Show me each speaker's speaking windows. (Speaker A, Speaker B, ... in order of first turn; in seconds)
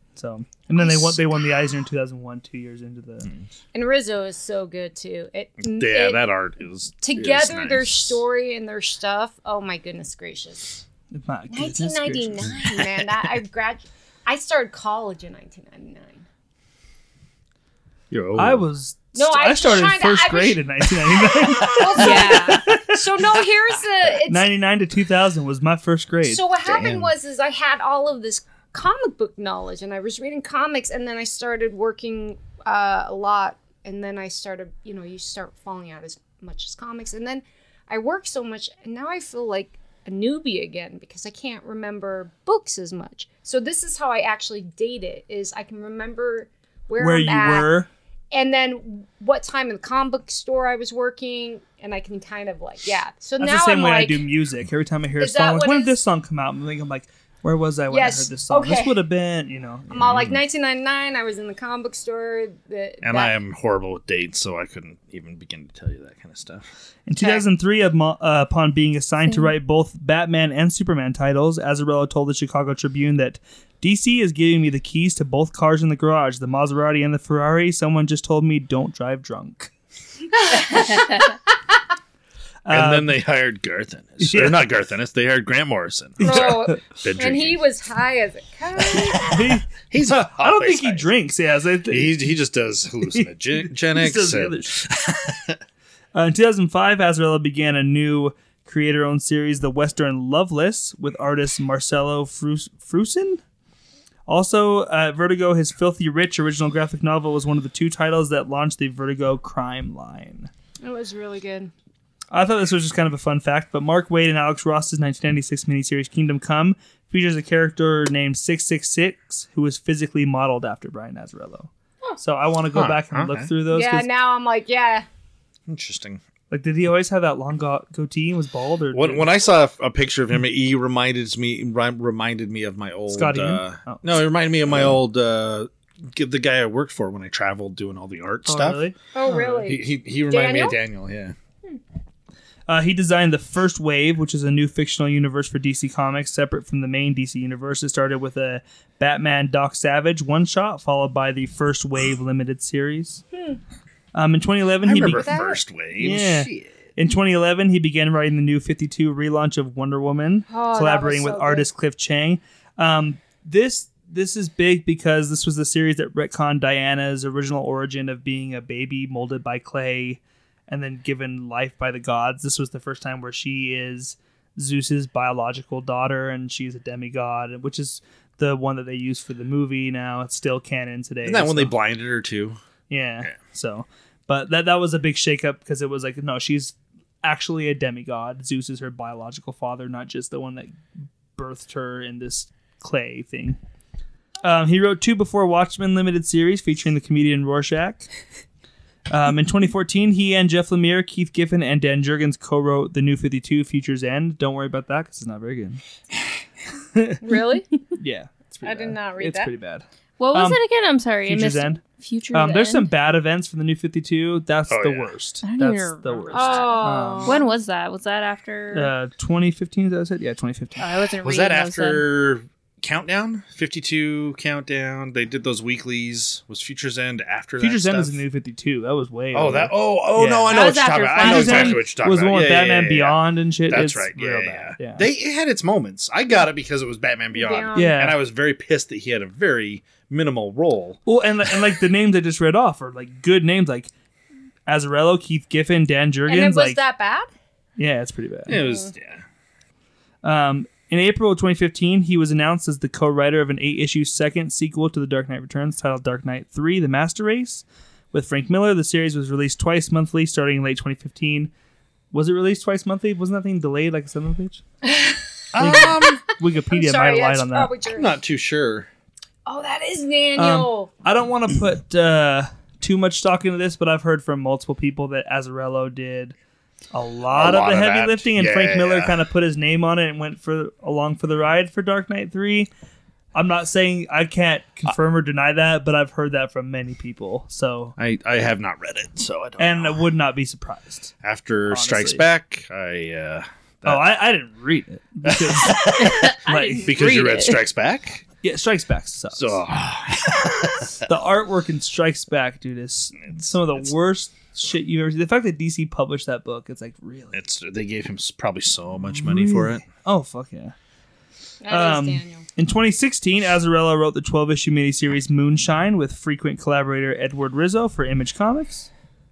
Speaker A: 0.1-3.3, 11.1-12.5, 18.4-23.0, 24.3-26.4, 47.0-47.9, 53.4-60.2, 67.1-79.7, 82.6-83.2, 84.2-84.7, 86.2-86.8, 89.3-92.2, 93.1-94.8, 96.1-103.4, 104.3-110.5, 112.3-124.1, 126.5-129.3, 133.1-134.2, 138.4-139.7, 142.7-153.2, 154.1-155.4, 156.0-181.7, 182.9-193.6, 194.4-198.1, 199.1-205.8, 206.9-207.2, 207.9-210.6, 211.2-211.8, 212.3-217.4, 218.7-220.8, 227.6-230.6, 231.2-235.0, 237.7-238.2, 241.1-243.9, 244.7-246.8, 247.8-248.6, 250.2-261.5, 262.1-264.6, 265.6-267.7, 270.4-276.3, 276.9-282.7, 283.3-287.9, 289.6-291.1, 291.7-292.3, 293.8-296.9, 298.4-299.6, 301.0-307.4, 309.0-310.7, 311.7-318.9
Speaker B: 0.7-1.4, 3.7-6.2, 7.0-10.8, 11.5-16.2, 19.1-24.5, 26.2-47.7, 48.3-54.3, 55.2-56.0, 57.9-59.0, 59.9-63.3, 67.2-67.4, 80.4-81.4, 86.2-89.6, 110.8-111.7, 123.7-125.0, 139.1-140.8, 153.3-153.6, 155.1-155.6, 160.5-161.7, 207.2-207.8, 208.6-209.5, 216.3-217.4, 237.3-238.0, 246.2-247.3, 248.5-248.9, 264.8-268.1, 269.4-270.9, 311.6-312.4
Speaker C: 5.6-8.2, 12.6-13.1, 18.1-18.6, 26.6-27.1, 59.9-60.4, 63.0-66.7, 82.7-87.6, 88.9-89.2, 89.9-91.1, 91.9-95.6, 122.7-123.5, 125.7-126.2, 128.9-138.9, 139.6-141.3, 154.8-156.7, 181.2-182.6, 214.7-215.1, 221.2-228.2, 229.3-241.6, 248.5-249.2, 265.5-266.2, 267.9-268.9, 277.3-279.2, 288.0-290.1, 291.2-294.1, 295.2-298.2, 299.3-301.0, 303.2-303.9, 307.3-309.8
Speaker D: 21.9-22.6, 210.2-212.9, 215.4-218.9, 220.8-222.0, 230.5-231.9, 296.0-297.6